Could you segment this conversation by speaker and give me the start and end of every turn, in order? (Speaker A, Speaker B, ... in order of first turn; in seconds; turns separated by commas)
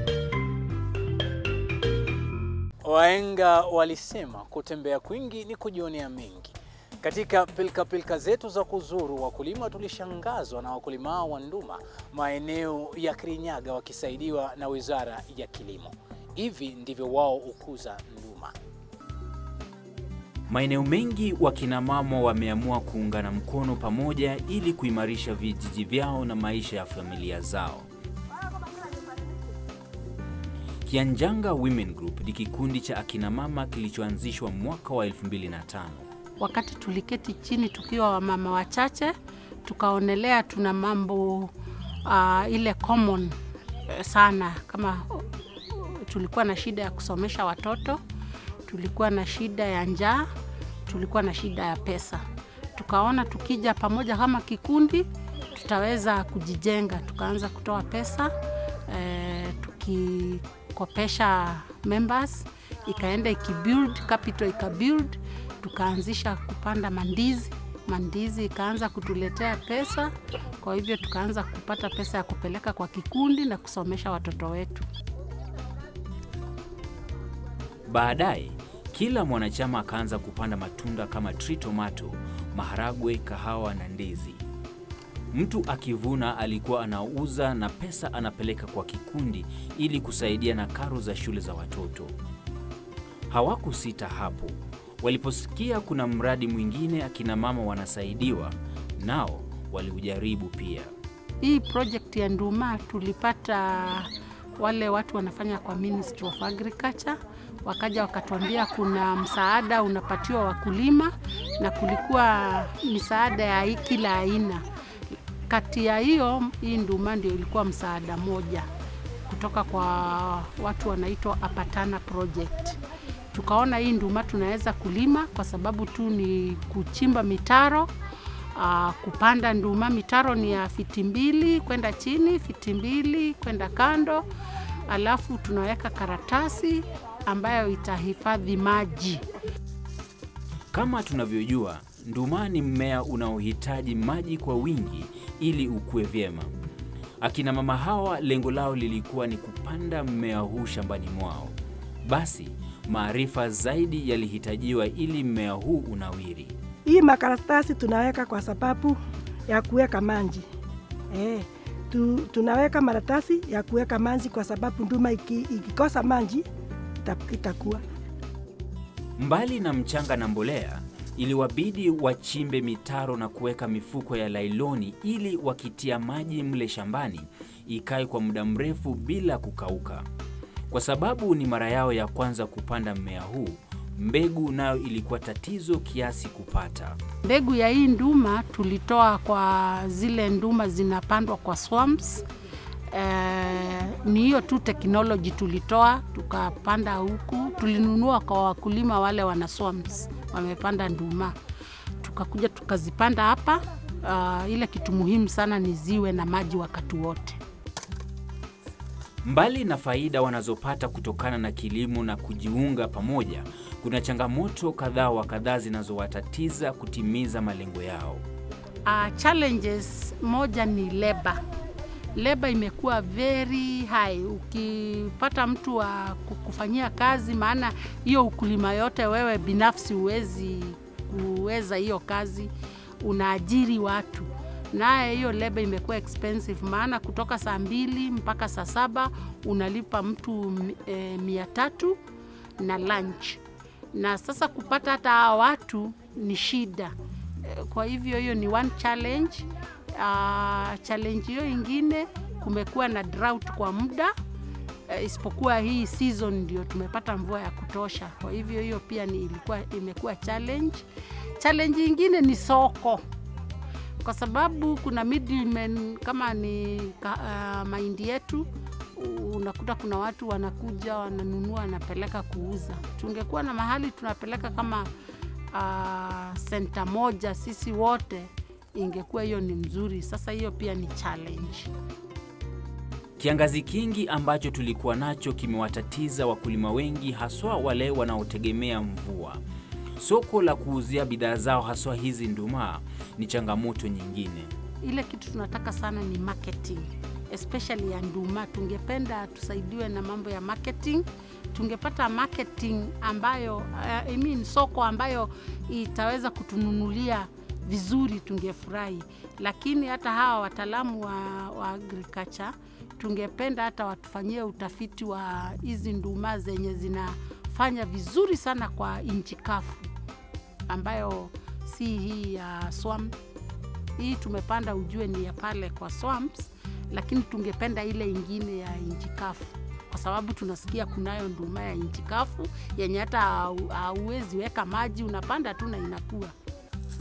Speaker A: 2.8-18.5, Speaker B: 20.5-27.9, Speaker B: 30.8-36.0, Speaker C: 36.4-39.1, Speaker C: 39.6-41.5, Speaker C: 42.0-43.3, Speaker C: 43.9-48.0, Speaker C: 48.6-50.2, Speaker C: 50.9-52.2, Speaker C: 52.8-58.3, Speaker C: 58.9-74.8, Speaker B: 77.9-84.4, Speaker B: 85.3-92.1, Speaker B: 93.3-100.9, Speaker C: 101.4-114.6, Speaker C: 115.5-118.7, Speaker C: 119.3-122.8, Speaker C: 123.3-127.9, Speaker C: 128.5-134.2, Speaker C: 134.9-139.2, Speaker B: 140.7-146.5, Speaker B: 147.2-156.5, Speaker D: 156.8-159.0, Speaker D: 159.5-160.4, Speaker D: 161.1-166.4, Speaker D: 167.0-167.8, Speaker B: 169.2-180.0, Speaker B: 180.7-187.0, Speaker C: 187.2-192.2, Speaker C: 192.9-201.3, Speaker C: 202.0-207.4, Speaker B: 209.2-218.2, Speaker C: 218.8-221.4, Speaker C: 222.1-242.0, Speaker C: 242.6-243.4, Speaker C: 243.9-246.9, Speaker C: 247.4-254.1, Speaker C: 254.9-260.9, Speaker C: 261.4-263.0, Speaker C: 264.0-274.9, Speaker C: 275.5-281.7, Speaker B: 283.2-289.4, Speaker B: 290.0-294.5, Speaker C: 294.8-319.9, Speaker C: 320.7-323.1, Speaker C: 324.0-336.3